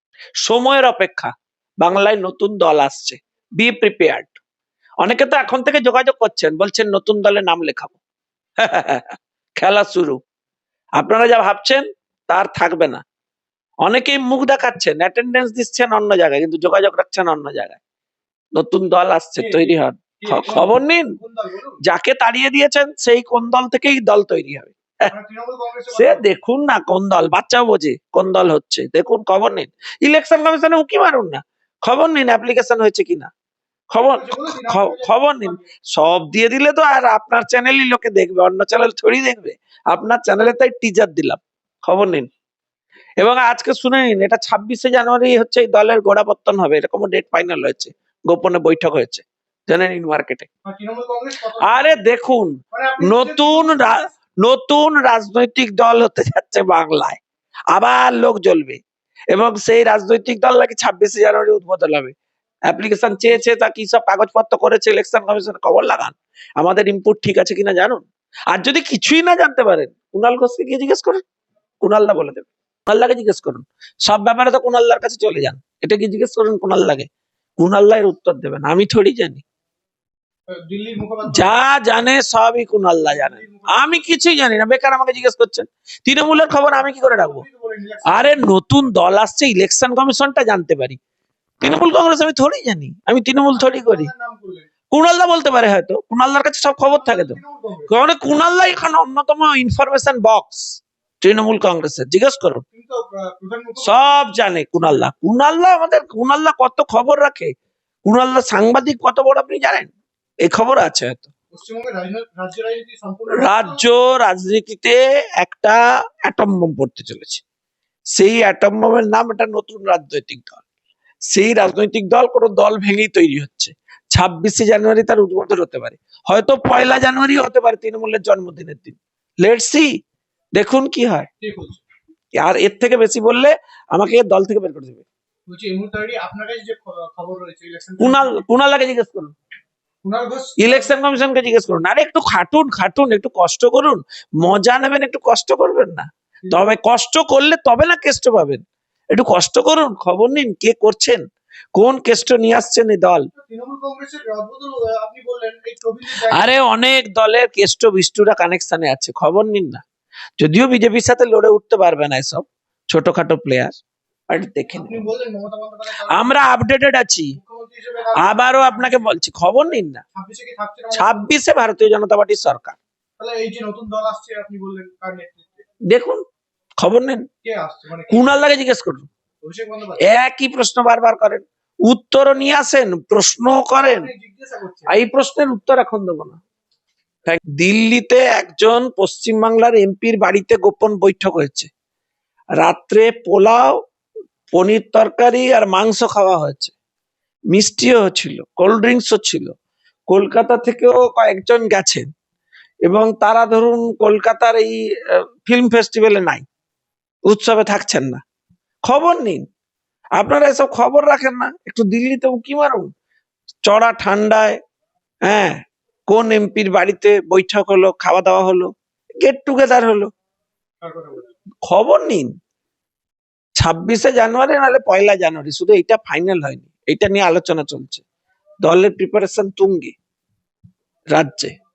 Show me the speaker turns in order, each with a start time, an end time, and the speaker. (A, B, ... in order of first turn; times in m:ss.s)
0:00.4-0:04.4 A
0:05.0-0:08.0 A
0:08.6-0:10.2 A
0:11.0-0:13.0 A
0:13.8-0:17.8 A
0:18.6-0:21.2 A
0:19.4-0:21.8 B
0:21.8-0:25.1 A
0:25.1-0:26.2 B
0:25.9-0:33.3 A
0:33.9-0:42.3 A
0:34.1-0:35.7 B
0:43.2-0:50.5 A
0:50.6-0:52.0 B
0:51.6-0:57.2 A
0:52.7-0:54.2 B
0:57.7-0:58.8 A
0:59.3-1:02.1 A
1:02.7-1:11.2 A
1:11.8-1:19.4 A
1:20.6-1:21.5 B
1:21.3-1:27.4 A
1:23.1-1:24.1 B
1:26.5-1:28.4 B
1:28.1-1:31.0 A
1:31.6-1:34.1 A
1:33.6-1:34.7 B
1:34.9-1:37.4 A
1:36.9-1:37.9 B
1:37.9-1:42.6 A
1:42.7-1:44.4 B
1:43.8-1:47.5 A
1:48.0-1:49.9 A
1:50.4-1:51.3 A
1:51.5-1:53.8 B
1:53.4-1:57.4 A
1:58.2-2:00.6 A
2:01.3-2:09.9 A
2:10.6-2:11.3 A
2:11.4-2:11.8 B
2:12.4-2:15.0 A
2:15.5-2:18.4 B
2:18.0-2:19.3 A
2:20.0-2:21.0 B
2:20.6-2:31.2 A
2:26.4-2:26.7 B
2:31.8-2:33.3 A
2:33.4-2:36.5 B
2:36.3-2:39.8 A
2:40.4-2:43.8 A
2:44.3-2:45.0 A
2:44.7-2:46.4 B
2:46.1-2:47.4 A
2:47.4-2:49.2 B
2:48.2-2:50.0 A
2:50.1-2:51.3 B
2:50.9-2:52.8 A
2:53.2-2:55.6 B
2:55.9-2:56.2 A
2:56.8-2:57.3 A
2:57.4-2:58.4 B
2:58.1-2:59.1 A
2:59.4-3:00.1 B
3:00.0-3:04.1 A
3:03.8-3:04.9 B
3:04.9-3:06.4 A
3:07.3-3:11.7 A
3:12.6-3:13.8 A
3:14.5-3:16.7 A
3:17.5-3:19.5 A
3:20.1-3:22.1 A
3:22.9-3:26.4 A
3:27.3-3:28.2 A
3:28.8-3:29.4 A
3:30.2-3:32.9 A
3:33.7-3:34.6 A
3:35.3-3:35.6 A
3:36.1-3:40.1 A
3:40.8-3:41.2 B
3:41.6-3:42.3 A
3:43.6-3:48.0 A
3:48.6-3:49.9 A
3:51.1-3:51.5 A